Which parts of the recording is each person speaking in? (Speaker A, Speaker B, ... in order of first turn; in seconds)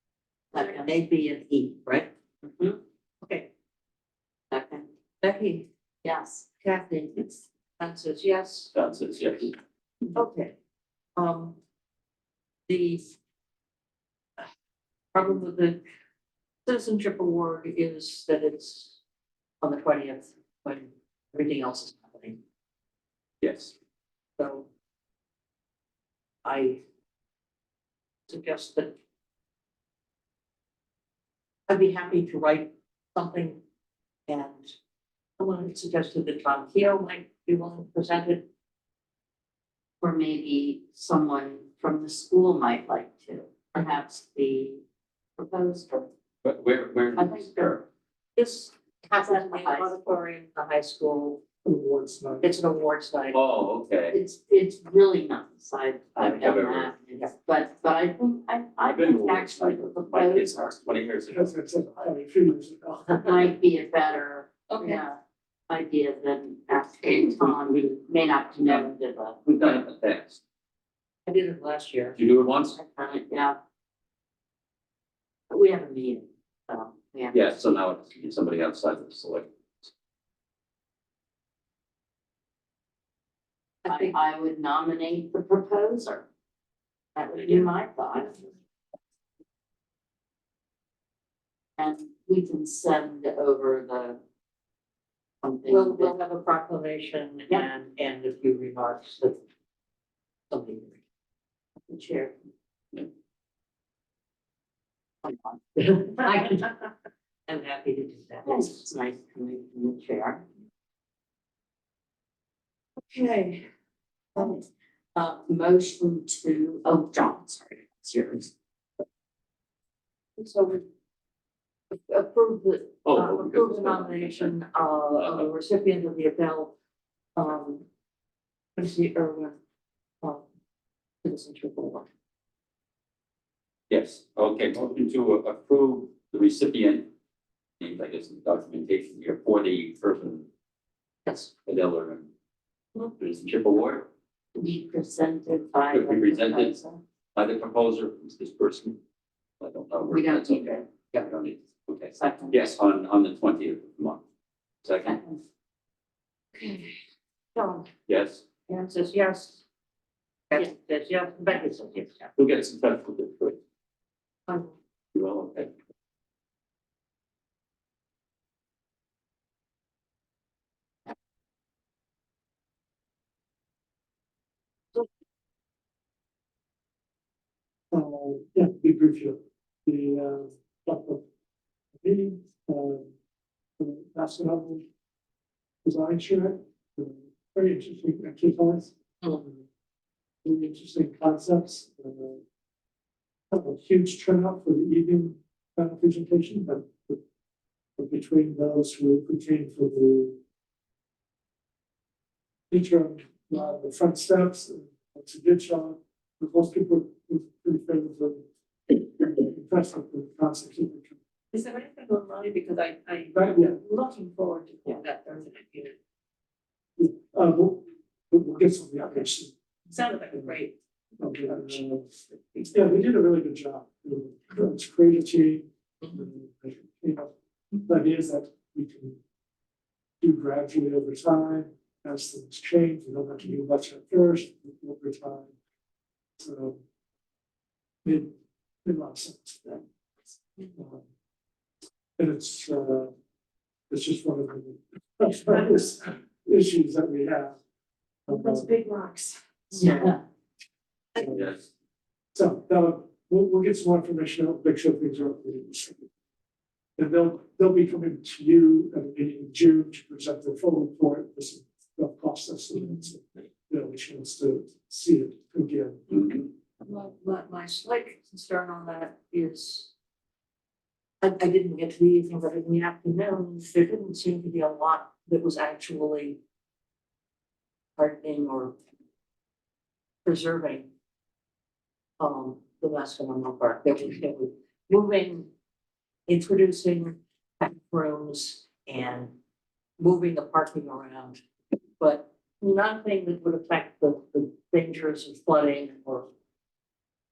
Speaker A: 0.5-2.1, 5.2-5.7, 6.6-8.7, 10.1-10.5, 11.2-11.6, 12.7-13.1, 15.1-15.8, 16.6-19.0, 19.6-22.4, 24.4-24.7, 26.4-26.8, 28.3-28.9, 31.7-33.6, 34.3-34.7, 35.4-38.5, 48.4-51.4, 52.4-53.4, 64.7-65.0, 71.2-72.2, 83.8-84.2, 95.7-99.4, 100.5-101.0, 101.9-102.3, 105.8-106.8, 107.5-108.8, 113.1-113.6, 120.4-120.8, 121.9-126.7, 127.3-127.8, 128.8-129.6, 131.2-132.1, 156.6-156.9, 157.5-157.9, 158.7-159.6, 160.5-162.2, 189.2-189.6, 211.5-215.9, 219.9-220.7, 248.3-250.2, 266.8-269.9, 271.2-276.4, 278.0-278.7, 280.2-280.9, 282.2-285.5, 286.3-289.3, 290.0-291.4, 292.0-296.3
Speaker B: 0.5-0.9, 4.5-4.8, 6.0-6.5, 40.0-44.8, 45.4-46.1, 47.1-47.8, 49.1-49.9, 54.1-61.0, 63.2-65.2, 65.7-69.4, 72.8-73.6, 75.5-77.4, 83.9-86.2, 87.1-88.4, 91.8-94.2, 95.4-96.1, 108.5-110.4, 114.3-114.6, 115.1-118.5, 144.5-147.0, 150.1-151.3, 152.2-152.6, 155.0-155.2, 249.8-250.2
Speaker C: 8.7-9.5, 23.4-23.7, 46.4-47.8, 53.3-54.1, 56.2-56.9, 58.9-61.5, 67.4-67.8, 69.5-70.4, 72.1-72.8, 77.3-79.9, 123.0-124.5, 125.1-125.5, 133.9-137.1, 137.8-140.5, 141.6-142.3, 143.2-144.1, 145.9-146.7, 147.3-149.0, 149.6-154.2, 154.8-155.2, 158.1-158.4, 162.4-163.6, 165.1-165.7, 251.2-251.7, 266.1-266.4
Speaker D: 51.6-52.5, 61.3-63.4, 177.9-181.2, 182.0-183.1, 183.8-184.9, 185.8-188.9, 190.4-192.4, 193.5-197.2, 198.0-200.4, 202.7-211.2, 213.3-213.8, 217.0-219.5, 220.3-220.6, 221.2-222.1, 222.7-227.3, 227.8-229.2, 230.2-235.5, 236.4-236.8, 238.0-238.3, 238.8-239.8, 240.7-241.0, 242.2-243.1, 243.9-247.6, 248.3-248.7, 251.2-251.5, 252.3-256.1, 257.0-266.0